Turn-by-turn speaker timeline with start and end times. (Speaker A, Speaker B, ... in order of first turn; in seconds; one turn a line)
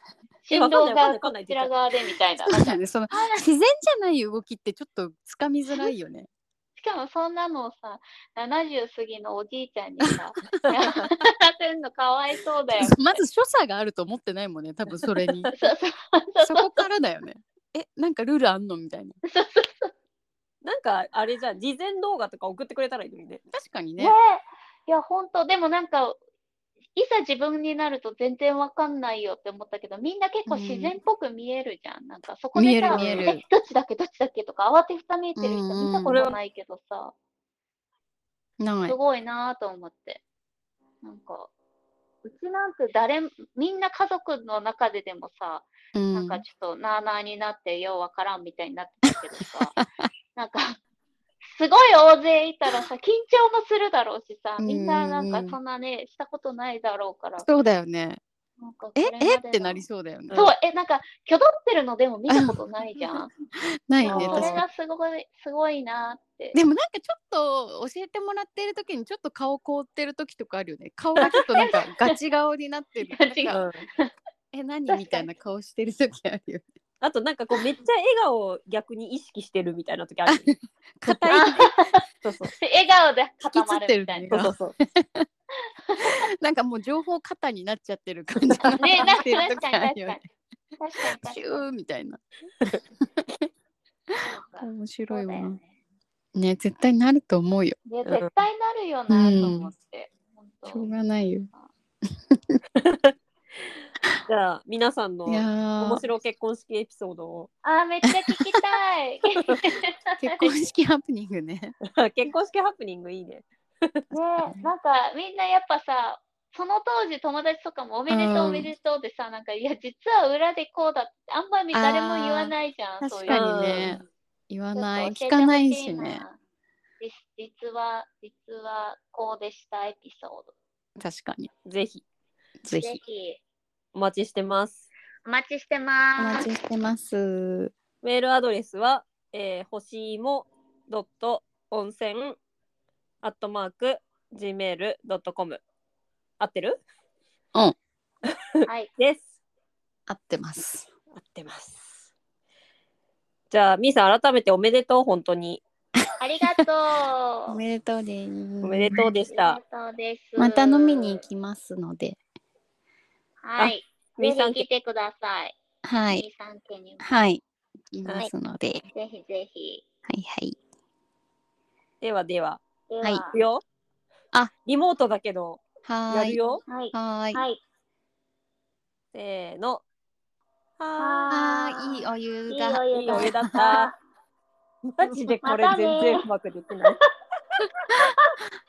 Speaker A: 0.4-3.4
Speaker B: 0.5-1.7
Speaker C: 2.4-6.3
Speaker A: 6.8-13.0
Speaker C: 10.8-11.1
Speaker C: 12.8-15.5
Speaker A: 15.5-16.8
Speaker C: 16.4-19.1
Speaker A: 19.2-19.9
Speaker B: 20.6-23.4
Speaker C: 23.5-24.1
Speaker A: 24.0-26.2
Speaker A: 26.9-37.1
Speaker C: 30.5-31.0
Speaker C: 32.5-33.4
Speaker B: 32.9-33.3
Speaker C: 35.4-36.2
Speaker B: 36.0-36.4
Speaker C: 38.6-39.0
Speaker A: 38.9-40.2
Speaker A: 41.0-41.5
Speaker A: 42.2-49.8
Speaker C: 45.9-46.4
Speaker A: 50.4-50.8
Speaker A: 51.4-57.5
Speaker C: 54.6-55.5
Speaker C: 57.4-58.2
Speaker A: 58.6-63.3
Speaker C: 59.0-60.4
Speaker B: 60.3-60.5
Speaker C: 62.3-64.6
Speaker A: 64.0-66.5
Speaker B: 64.0-64.6
Speaker C: 66.5-73.5
Speaker A: 71.2-72.2
Speaker A: 73.0-74.1
Speaker B: 73.5-73.9
Speaker C: 74.5-76.6
Speaker A: 74.9-75.3
Speaker B: 77.0-80.5
Speaker C: 80.3-81.8
Speaker A: 81.3-82.0
Speaker B: 82.2-82.5
Speaker A: 82.6-84.5
Speaker C: 83.5-85.3
Speaker B: 84.3-84.8
Speaker A: 85.8-86.2
Speaker C: 86.0-90.2
Speaker B: 88.3-88.8
Speaker A: 88.8-90.2
Speaker A: 90.8-91.6
Speaker C: 91.0-92.2
Speaker C: 93.0-93.5
Speaker A: 94.2-95.7
Speaker C: 94.6-95.6
Speaker C: 96.3-97.8
Speaker A: 97.8-100.9
Speaker B: 98.0-98.3
Speaker C: 99.1-99.7
Speaker C: 100.7-101.5
Speaker C: 102.3-102.6
Speaker B: 102.8-103.6
Speaker B: 104.3-107.5
Speaker C: 105.2-106.0
Speaker A: 107.6-110.5
Speaker C: 108.1-108.6
Speaker C: 110.2-111.7
Speaker B: 111.8-114.0
Speaker A: 114.1-123.8
Speaker C: 118.1-118.7
Speaker C: 121.7-126.2
Speaker B: 123.3-124.0
Speaker A: 124.7-126.3
Speaker A: 127.0-130.5
Speaker C: 131.0-131.5
Speaker B: 131.7-132.0
Speaker C: 132.6-133.0
Speaker A: 132.8-133.4
Speaker B: 133.9-134.9
Speaker A: 135.2-136.5
Speaker C: 136.2-137.7
Speaker B: 138.0-142.4
Speaker B: 143.2-145.6
Speaker B: 146.4-146.8
Speaker A: 148.6-148.9
Speaker B: 149.0-149.3
Speaker C: 150.1-150.9
Speaker B: 151.1-152.0
Speaker B: 153.5-155.6
Speaker A: 156.2-157.6
Speaker C: 157.5-159.0
Speaker B: 158.6-159.6
Speaker A: 159.2-161.2
Speaker C: 160.4-162.2
Speaker A: 163.4-167.0
Speaker B: 163.6-164.7
Speaker C: 165.8-166.2
Speaker C: 167.0-168.9
Speaker B: 168.0-168.3
Speaker A: 168.9-169.8
Speaker C: 170.1-170.6
Speaker B: 172.0-172.6
Speaker A: 172.9-173.4
Speaker B: 173.3-173.6
Speaker B: 174.7-176.6
Speaker C: 175.8-176.4
Speaker A: 176.7-177.6
Speaker C: 176.9-177.4
Speaker B: 179.1-179.8
Speaker B: 180.8-181.4
Speaker A: 181.0-183.9
Speaker C: 181.3-183.6
Speaker B: 182.9-183.9
Speaker B: 184.8-187.0
Speaker A: 185.4-186.2
Speaker A: 187.9-188.4